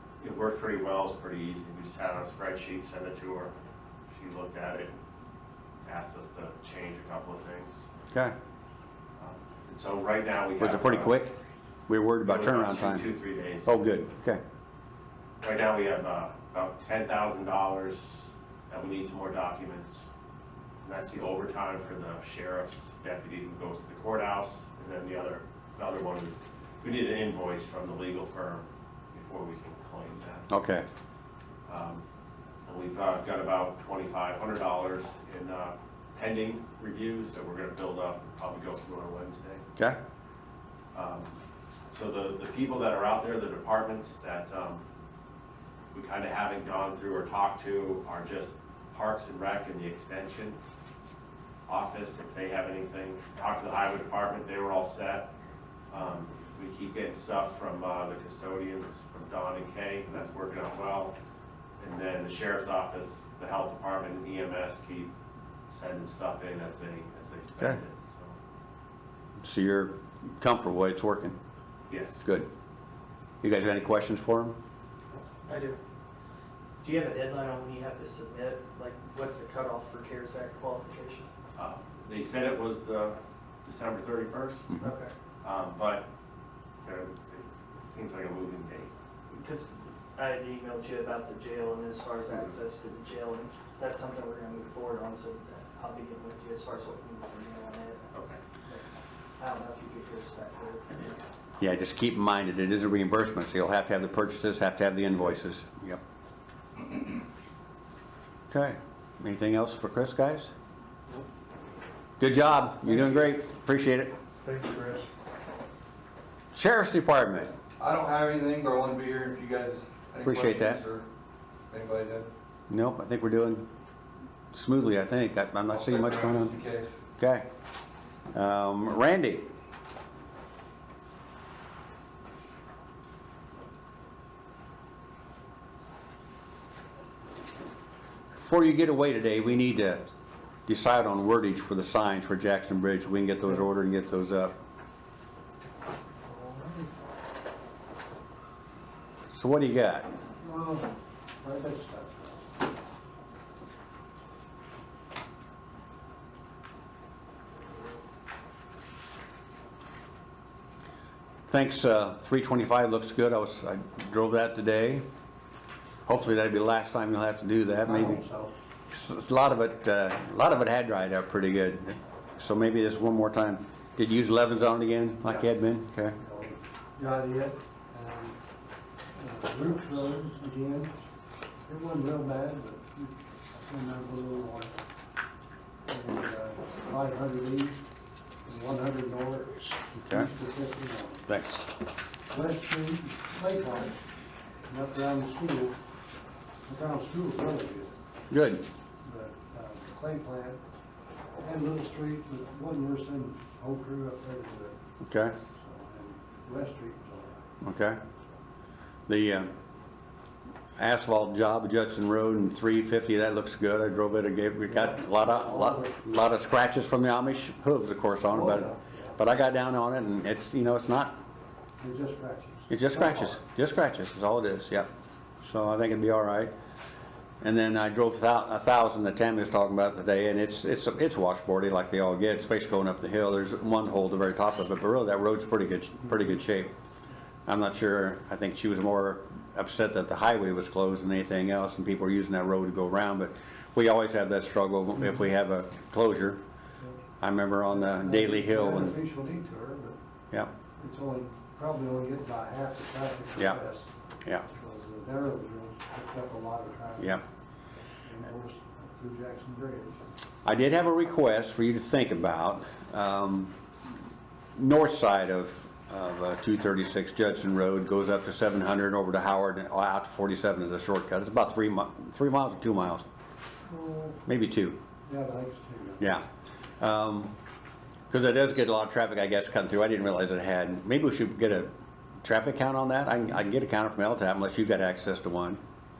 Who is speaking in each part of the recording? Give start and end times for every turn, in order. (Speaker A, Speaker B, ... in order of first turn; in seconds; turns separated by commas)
Speaker A: 0.2-3.5, Speaker A: 4.1-4.9, Speaker A: 5.8-7.9, Speaker A: 9.2-11.2, Speaker B: 10.6-11.3, Speaker B: 11.9-13.1, Speaker A: 12.2-13.8, Speaker B: 13.6-14.4, Speaker A: 15.4-20.0, Speaker A: 20.8-30.5, Speaker B: 30.5-30.9, Speaker A: 31.7-32.0, Speaker A: 32.6-39.6, Speaker A: 40.9-41.3, Speaker A: 41.9-44.8, Speaker A: 45.9-50.6, Speaker A: 51.7-55.3, Speaker A: 55.9-61.1, Speaker A: 61.8-65.1, Speaker A: 65.7-68.4, Speaker B: 69.4-71.4, Speaker A: 71.9-72.2, Speaker B: 72.2-72.5, Speaker B: 73.4-74.6, Speaker C: 75.5-75.8, Speaker C: 76.8-81.3, Speaker A: 81.5-84.7, Speaker C: 84.8-85.1, Speaker A: 85.4-86.1, Speaker A: 86.8-88.9, Speaker C: 89.3-98.1, Speaker A: 98.1-98.4, Speaker C: 99.4-101.2, Speaker B: 101.6-106.0, Speaker B: 108.5-110.5, Speaker B: 112.2-114.1, Speaker D: 114.4-115.1, Speaker B: 116.5-117.5, Speaker D: 117.8-121.1, Speaker B: 120.2-120.8, Speaker D: 121.7-122.3, Speaker B: 122.7-123.7, Speaker B: 124.5-126.5, Speaker D: 125.7-127.0, Speaker B: 127.2-127.5, Speaker B: 128.3-129.5, Speaker B: 138.3-140.0, Speaker B: 140.7-144.5, Speaker E: 146.2-146.9, Speaker B: 149.3-150.1, Speaker E: 150.4-152.5, Speaker B: 161.5-165.0, Speaker B: 166.1-168.2, Speaker E: 167.8-168.5, Speaker B: 168.9-176.2, Speaker E: 176.2-178.4, Speaker E: 179.2-180.9, Speaker E: 181.7-184.7, Speaker E: 185.9-187.8, Speaker E: 188.4-191.2, Speaker B: 189.9-190.3, Speaker B: 191.3-191.7, Speaker E: 192.3-194.0, Speaker E: 194.7-195.8, Speaker E: 196.7-197.9, Speaker B: 198.3-198.7, Speaker E: 199.0-200.6, Speaker E: 201.4-204.8, Speaker B: 205.0-205.4, Speaker E: 205.5-207.4, Speaker B: 207.6-208.0, Speaker B: 209.1-209.5, Speaker B: 210.8-221.2, Speaker E: 214.7-215.9, Speaker E: 218.3-219.2, Speaker E: 221.8-223.4, Speaker B: 222.7-224.9, Speaker B: 225.4-226.5, Speaker B: 227.4-236.7, Speaker B: 237.5-246.4, Speaker B: 247.2-249.0, Speaker E: 247.7-250.0, Speaker E: 250.8-253.9, Speaker E: 254.5-257.2, Speaker E: 258.0-260.0, Speaker B: 260.4-263.5, Speaker B: 264.6-273.0, Speaker E: 273.7-274.2, Speaker B: 274.3-274.8, Speaker E: 275.1-276.1, Speaker B: 276.0-276.2, Speaker B: 276.8-277.3, Speaker B: 278.1-281.7, Speaker B: 282.2-285.6